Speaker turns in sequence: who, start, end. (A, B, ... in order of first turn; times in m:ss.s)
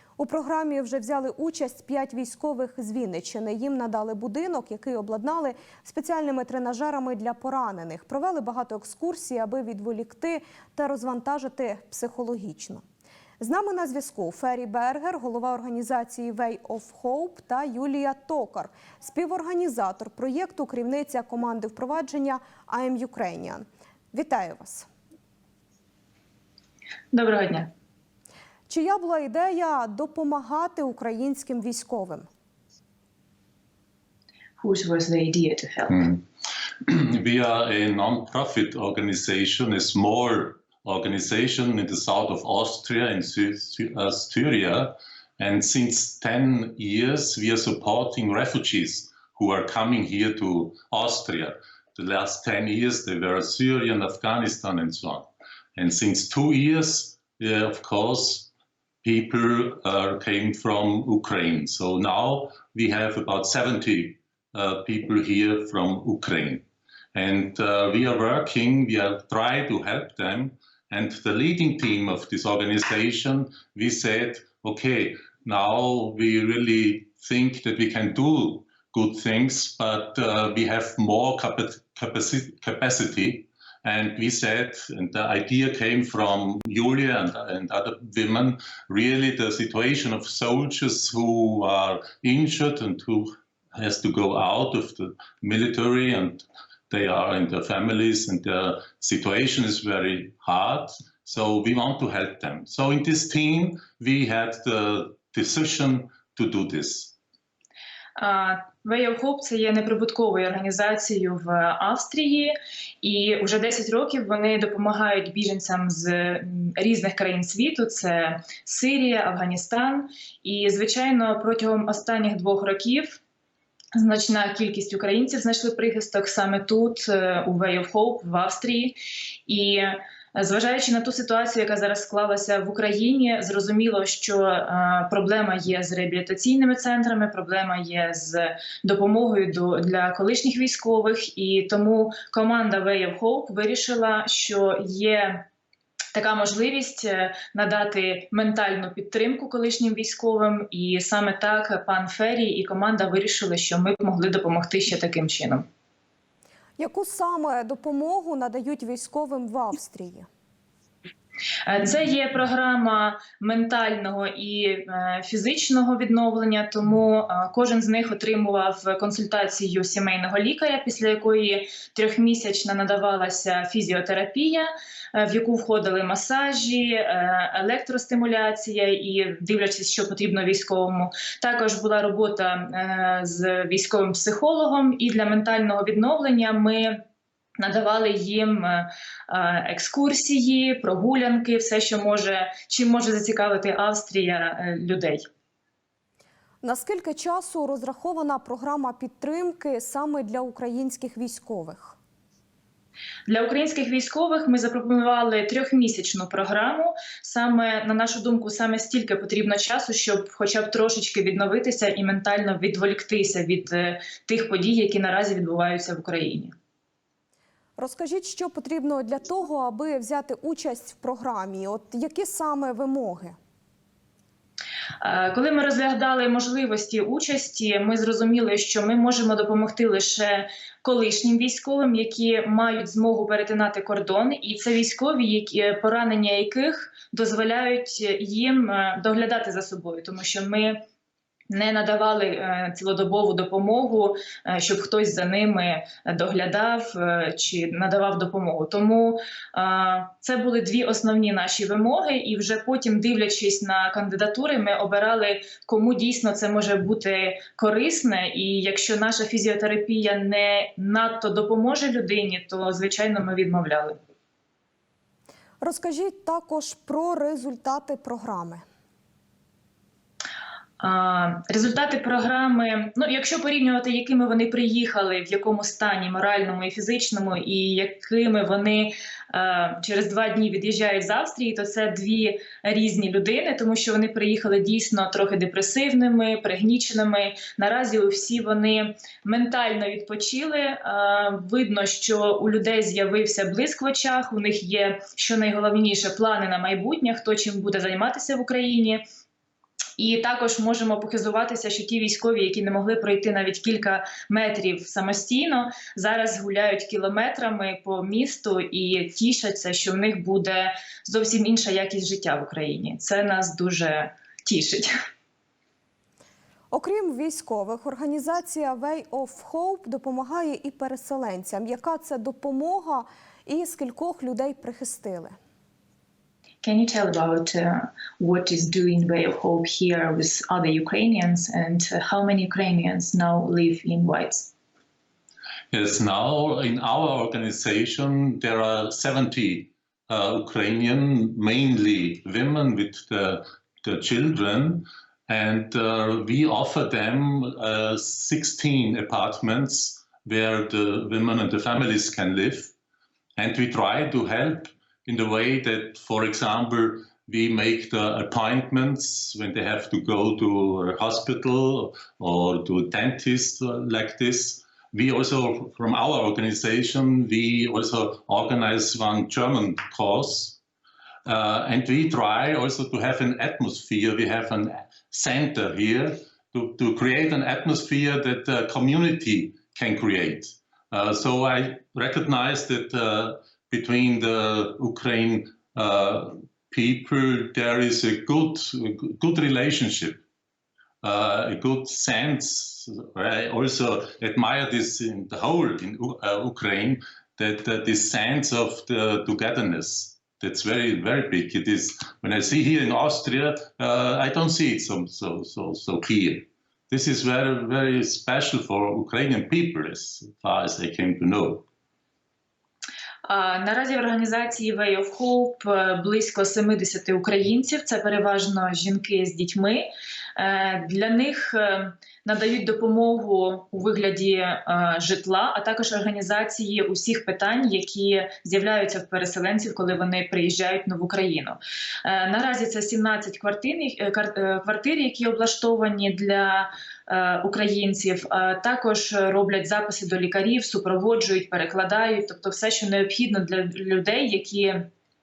0:00.2-0:12.8 A
0:13.4-0:24.9 A
0:27.1-0:27.7 B
0:28.7-0:32.3 A
0:34.6-0:36.1 B
0:35.9-0:36.2 C
0:36.8-0:58.5 C
0:59.0-1:47.1 C
1:48.2-2:03.2 B
2:04.0-2:25.4 B
2:26.1-2:35.7 B
2:36.8-2:40.3 A
2:41.6-3:07.0 B
3:07.6-3:15.2 B
3:16.6-3:22.0 A
3:23.3-3:36.5 B
3:37.8-3:43.4 A
3:45.0-4:00.8 B
4:01.5-4:24.0 B
4:25.6-4:28.6 A
4:30.8-4:59.0 B
5:00.0-5:14.9 B
5:16.7-5:25.4 A
5:26.6-5:34.5 B
5:35.7-5:52.7 C
5:53.4-6:10.6 C
6:11.2-6:30.2 C
6:31.0-6:51.6 C
6:53.2-7:24.9 B